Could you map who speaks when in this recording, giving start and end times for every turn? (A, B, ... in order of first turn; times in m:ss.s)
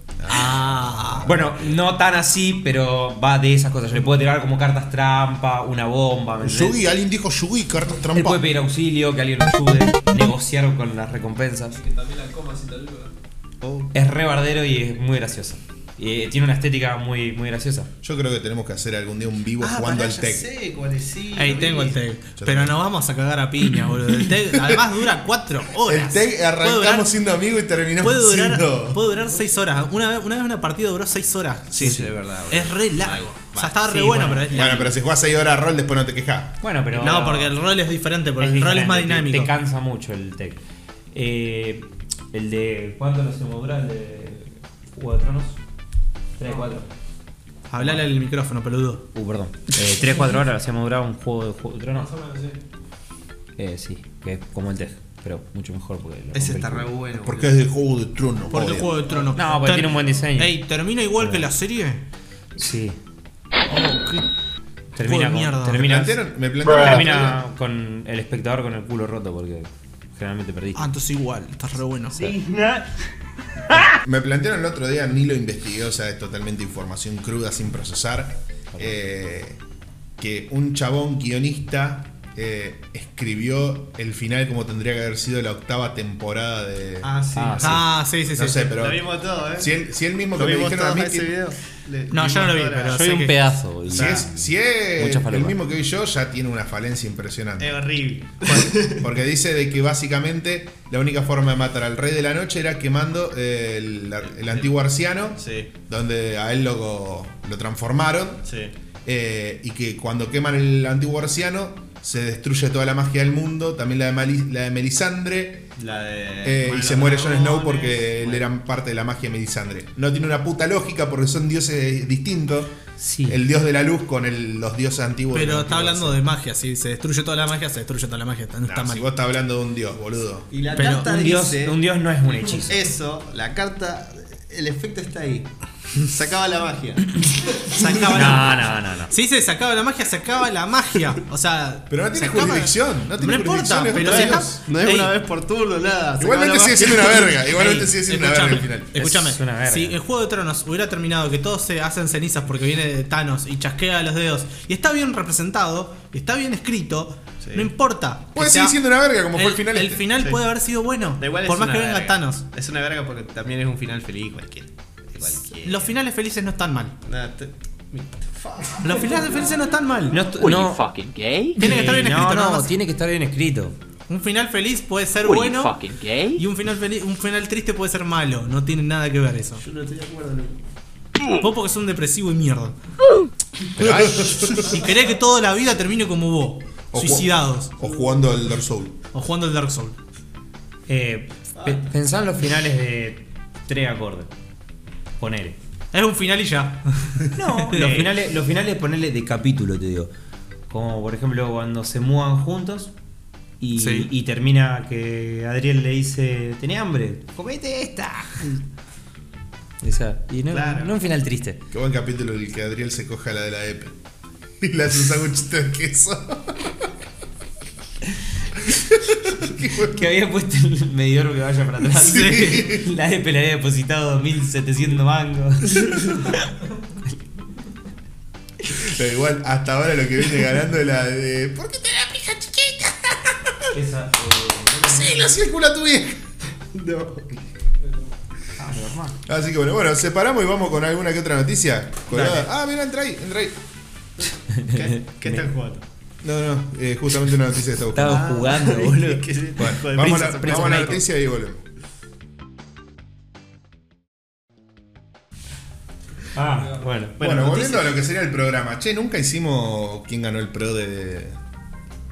0:00.2-0:01.5 A
0:00.3-0:01.3 B
0:01.2-0:06.8 C
0:06.4-0:08.4 A
0:08.1-0:11.8 C
0:11.7-0:13.1 D
0:13.6-0:13.9 E
0:13.9-0:17.9 C
0:18.0-0:20.4 A
0:19.6-0:22.0 E
0:21.4-0:27.1 B
0:22.4-0:22.7 A
0:24.5-0:24.8 A
0:25.8-0:29.0 A
0:28.0-0:34.9 B
0:31.7-0:35.0 E
0:34.5-0:36.6 A
0:36.6-0:37.6 C
0:36.9-0:39.5 B
0:38.4-0:40.6 C
0:41.1-0:45.6 C
0:46.4-0:46.9 C
0:47.7-0:49.1 B
0:49.1-0:52.2 C
0:52.0-0:52.6 D
0:53.6-0:56.9 C
0:56.3-0:57.6 E
0:57.2-0:58.9 A
0:58.5-1:02.0 B
0:59.0-0:59.4 E
0:59.4-1:00.6 C
1:01.2-1:01.5 C
1:02.6-1:03.0 C
1:03.7-1:04.3 B
1:05.0-1:10.9 C
1:05.0-1:05.9 B
1:05.8-1:07.4 A
1:10.8-1:12.3 B
1:12.2-1:12.9 E
1:13.8-1:19.6 A
1:20.2-1:27.1 A
1:27.0-1:27.8 E
1:27.4-1:27.8 C
1:27.6-1:28.7 B
1:28.3-1:31.3 A
1:28.8-1:29.7 E
1:30.3-1:33.3 E
1:32.1-1:33.4 B
1:32.9-1:35.6 C
1:33.9-1:37.8 A
1:33.9-1:34.3 E
1:37.6-1:39.1 E
1:38.5-1:48.4 A
1:44.2-1:44.8 E
1:45.4-1:45.7 E
1:48.4-1:48.7 E
1:49.0-1:55.7 A
1:55.8-1:58.4 E
1:56.4-2:06.2 A
2:03.0-2:03.4 C
2:05.3-2:09.0 B
2:08.6-2:10.5 A
2:10.5-2:15.5 E
2:10.8-2:11.1 B
2:10.9-2:12.9 C
2:16.0-2:17.8 E
2:17.6-2:25.1 B
2:18.1-2:19.1 C
2:21.9-2:24.6 A
2:23.9-2:27.5 E
2:26.2-2:29.0 A
2:27.5-2:38.8 B
2:29.0-2:30.0 C
2:37.4-2:37.7 E
2:38.4-2:40.0 A
2:39.3-2:42.4 B
2:41.2-2:46.0 E
2:45.4-2:47.0 B
2:47.0-2:49.7 E
2:48.8-2:50.2 B
2:50.1-2:50.9 C
2:50.3-2:51.6 F
2:51.5-2:53.8 C
2:51.6-2:52.7 B
2:54.1-2:59.6 B
2:55.2-2:56.4 F
2:59.6-3:00.6 E
3:01.4-3:02.8 B
3:03.8-3:04.4 C
3:03.8-3:04.8 A
3:04.6-3:07.7 B
3:06.9-3:09.0 A
3:09.1-3:10.0 B
3:10.9-3:14.3 C
3:11.6-3:11.9 E
3:15.2-3:15.6 C
3:15.9-3:18.1 B
3:17.4-3:20.1 C
3:17.8-3:18.0 E
3:20.7-3:22.9 C
3:23.6-3:28.6 C
3:23.8-3:24.1 B
3:29.8-3:31.6 C
3:30.5-3:31.0 E
3:31.7-3:34.0 A
3:34.6-3:36.9 A
3:38.7-3:40.0 A
3:39.7-3:46.4 C
3:42.0-3:42.9 A
3:42.0-3:42.7 B
3:48.7-3:53.2 A
3:53.7-3:55.3 C
3:54.8-3:56.2 A
3:56.6-3:57.4 E
3:58.6-3:59.2 C
3:59.3-4:03.6 A
4:02.1-4:02.5 E
4:04.2-4:05.8 E
4:04.5-4:05.5 C
4:06.2-4:08.3 A
4:07.9-4:09.3 C
4:08.0-4:11.0 E
4:09.6-4:11.6 A
4:10.0-4:11.0 C
4:16.3-4:17.2 C
4:17.2-4:17.9 E
4:17.2-4:21.4 A